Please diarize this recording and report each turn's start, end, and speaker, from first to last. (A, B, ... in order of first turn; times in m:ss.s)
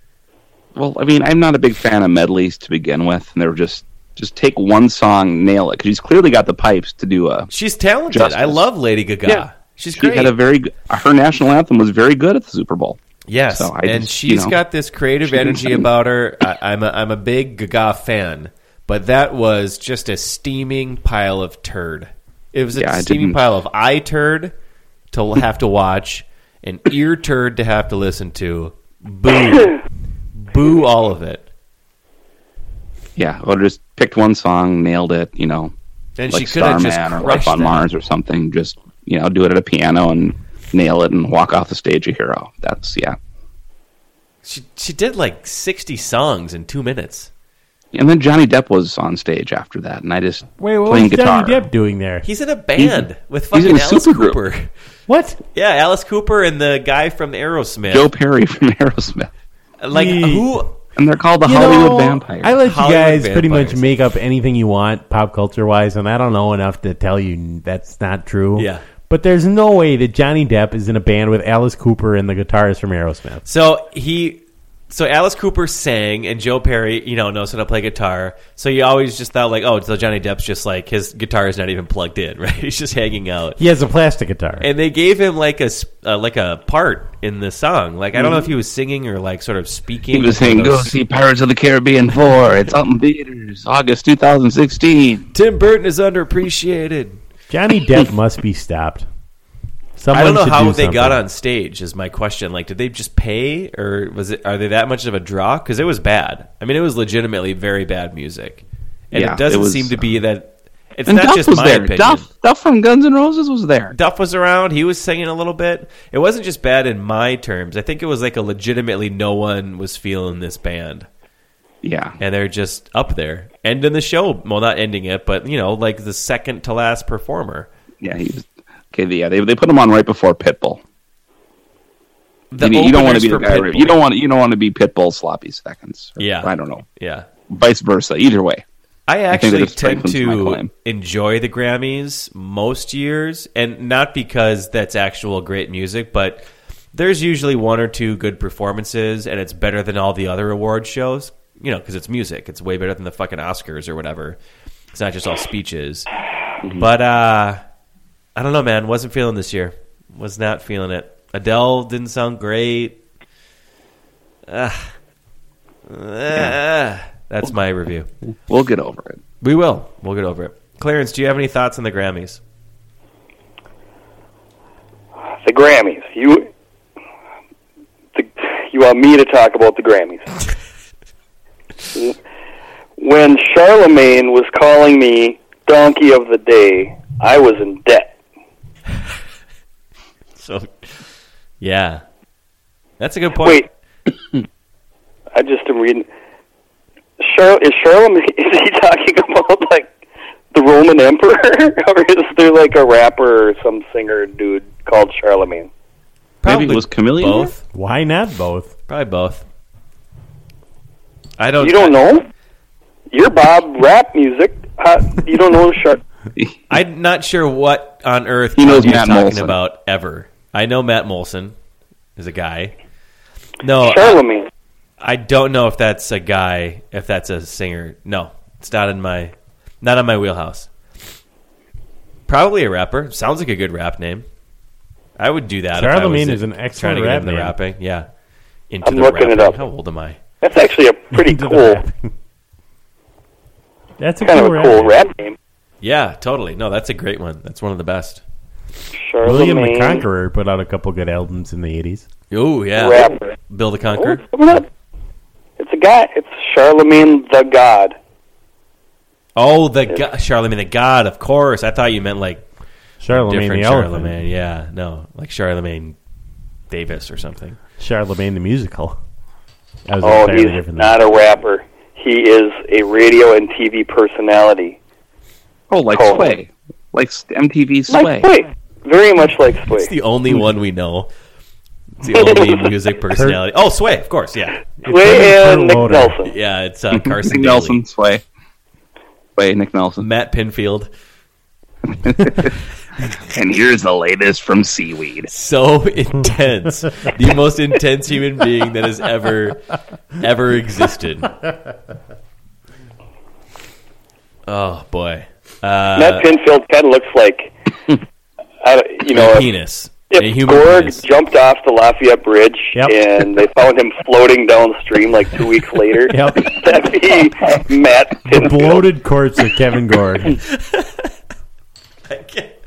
0:00.8-0:07.5 A
0:07.5-0:10.4 B
0:08.1-0:08.6 A
0:09.3-0:13.0 A
0:13.3-0:24.5 B
0:13.5-0:14.6 A
0:15.3-0:15.9 A
0:22.8-0:23.4 A
0:25.1-0:29.8 B
0:30.4-0:31.4 B
0:33.2-0:35.7 A
0:36.2-0:37.8 B
0:36.3-0:43.2 A
0:44.4-0:47.3 B
0:47.9-0:51.7 A
0:50.6-0:52.3 C
0:52.2-0:54.7 B
0:52.8-0:54.4 A
0:55.1-0:55.4 C
0:55.5-0:58.1 B
0:57.9-0:59.3 A
0:59.8-1:00.7 B
0:59.9-1:00.6 C
1:01.0-1:02.6 A
1:01.4-1:13.4 C
1:02.6-1:03.9 B
1:08.6-1:08.8 B
1:13.4-1:23.6 B
1:23.6-1:24.7 C
1:24.6-1:30.9 B
1:28.2-1:28.5 A
1:30.1-1:35.3 A
1:35.3-1:37.2 B
1:37.5-1:39.1 C
1:40.0-1:41.2 C
1:40.1-1:52.3 B
1:49.1-1:50.0 A
1:51.1-1:54.0 A
1:53.9-2:01.1 B
2:01.8-2:02.2 A
2:02.2-2:07.7 B
2:08.0-2:10.8 A
2:12.5-2:14.0 B
2:12.6-2:16.8 A
2:16.2-2:17.3 B
2:17.5-2:18.6 A
2:19.1-2:34.4 B
2:19.3-2:20.7 A
2:34.9-2:36.1 B
2:36.8-2:37.6 B
2:38.4-2:43.0 B
2:44.5-2:44.9 B
2:45.9-2:48.1 B
2:48.5-2:49.2 A
2:49.4-2:52.4 B
2:55.4-2:56.5 D
2:58.2-3:00.4 D
3:03.0-3:08.2 D
3:10.4-3:11.0 B
3:11.6-3:12.0 B
3:13.0-3:13.7 B
3:13.4-3:13.7 D
3:15.3-3:16.1 D
3:17.2-3:19.9 D
3:20.5-3:25.7 D
3:26.4-3:27.6 B
3:26.4-3:27.5 A
3:27.7-3:28.7 C
3:28.9-3:29.4 B
3:31.4-3:32.0 B
3:31.6-3:32.3 D
3:33.1-3:36.0 D
3:36.7-3:41.6 B
3:38.6-3:39.6 A
3:42.2-3:42.8 B
3:43.6-3:44.2 B
3:43.8-3:44.5 D
3:45.0-3:50.7 B
3:52.3-3:54.3 B
3:55.2-3:58.1 B
3:55.7-3:57.6 C
3:58.7-4:00.2 B
3:58.8-3:59.6 D
4:00.4-4:01.8 D
4:01.1-4:02.1 C
4:04.0-4:05.0 C
4:04.2-4:05.4 D
4:05.8-4:08.2 B
4:09.0-4:10.0 D
4:09.2-4:12.1 C
4:12.3-4:14.2 B
4:12.8-4:13.4 D
4:14.0-4:14.7 D
4:15.6-4:18.0 D
4:19.4-4:22.5 B
4:23.0-4:24.2 C
4:23.1-4:26.0 B
4:26.7-4:27.6 B
4:27.8-4:29.0 C
4:29.9-4:30.9 C
4:30.0-4:34.8 D
4:35.7-4:38.3 A
4:35.9-4:36.4 D
4:37.9-4:39.9 D
4:39.8-4:41.1 B
4:42.0-4:44.6 B
4:42.2-4:42.5 D
4:44.8-4:46.2 C
4:44.8-4:46.3 D
4:46.2-4:47.8 B
4:46.9-4:48.2 A
4:49.4-4:50.1 A
4:50.0-4:50.9 B
4:51.9-4:52.5 A
4:53.1-4:55.3 A
4:55.3-5:01.4 B
5:04.5-5:06.3 B
5:06.0-5:07.6 D
5:08.6-5:09.5 D
5:09.1-5:11.0 B
5:10.1-5:18.8 D
5:16.1-5:16.6 C
5:18.3-5:20.4 C
5:20.6-5:21.1 B
5:22.1-5:22.5 B